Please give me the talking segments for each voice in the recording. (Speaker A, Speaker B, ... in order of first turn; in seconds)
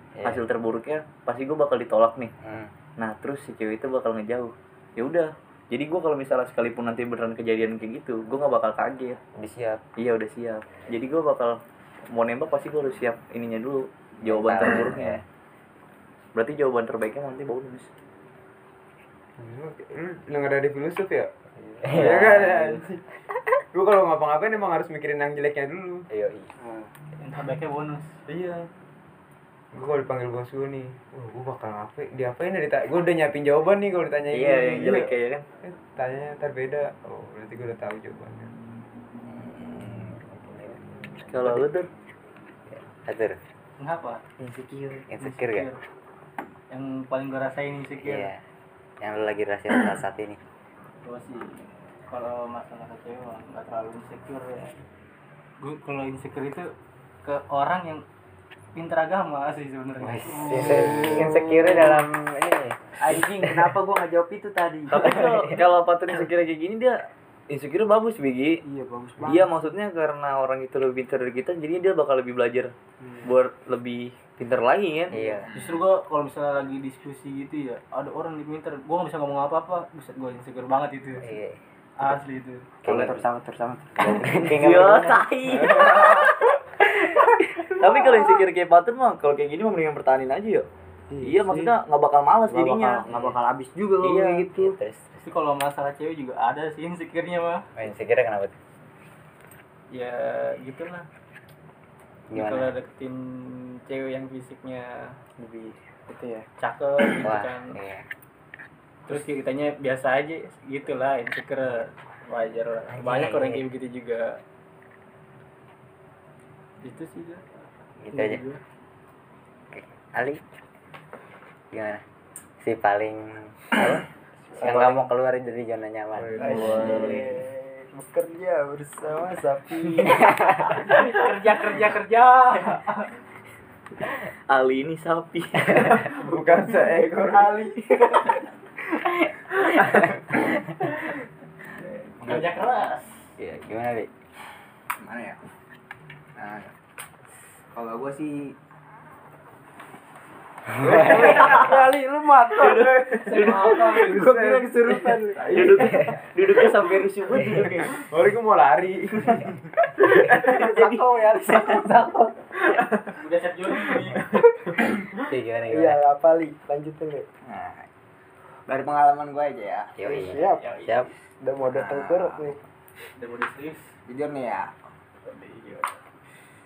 Speaker A: 0.2-0.4, 2.4-2.7, 9.4-9.8, 14.2-15.2, 21.6-22.6, 26.1-26.5, 39.3-41.7, 42.7-43.4, 45.1-45.7, 48.0-48.4, 49.0-50.4, 60.0-62.9, 65.0-65.6, 75.1-75.5, 81.2-81.6, 82.8-83.2, 84.0-85.1, 94.6-95.2, 97.8-98.5, 102.3-102.7, 107.2-108.0, 112.9-113.6, 118.0-118.4, 119.7-120.4, 121.7-122.0, 122.6-123.7, 124.6-126.6, 135.7-136.0, 139.7-140.8, 143.4-144.1, 150.7-151.6, 155.7-156.2, 157.4-157.7, 165.2-166.0, 170.0-171.1
Speaker B: 0.2-2.3, 3.0-9.2, 10.0-15.2, 16.4-17.9, 22.2-22.8, 34.3-35.5, 41.3-41.9, 64.9-68.6, 69.2-72.7, 73.2-75.2, 84.3-86.5, 87.6-90.7, 91.2-93.1, 94.0-94.5, 126.4-127.4, 134.5-136.0, 151.3-151.7, 152.5-158.0, 160.1-162.0
Speaker C: 19.4-21.3, 21.9-23.0, 23.7-26.1, 28.3-28.7, 29.7-38.5, 126.2-127.1, 136.0-137.8, 139.9-140.2, 157.5-160.3
Speaker D: 26.6-26.9, 44.4-45.1, 60.6-62.0, 63.0-65.2, 68.7-69.6, 73.0-73.3, 82.8-86.0, 91.1-91.7, 92.5-94.8, 105.4-106.5, 124.5-125.1, 126.4-130.5, 150.8-155.9, 160.2-162.5, 164.3-164.8, 165.7-167.3, 170.0-170.7, 171.4-172.6
Speaker E: 27.2-28.1, 43.8-44.2, 45.1-45.8, 46.7-48.3, 51.0-54.8, 55.6-56.7, 57.2-58.0, 58.7-62.0, 75.5-81.4, 82.0-82.8, 95.2-97.7, 99.9-101.1, 102.3-105.2, 106.6-107.8, 109.1-114.4, 116.8-117.4, 118.1-118.5, 130.8-133.1, 142.2-143.1, 153.2-154.3, 163.1-164.4, 170.4-170.9, 173.2-173.9, 175.3-175.9
Speaker F: 75.2-75.8, 145.0-145.4, 146.4-146.7, 147.7-148.6, 167.4-167.9, 168.7-169.9, 171.7-172.4, 174.1-174.7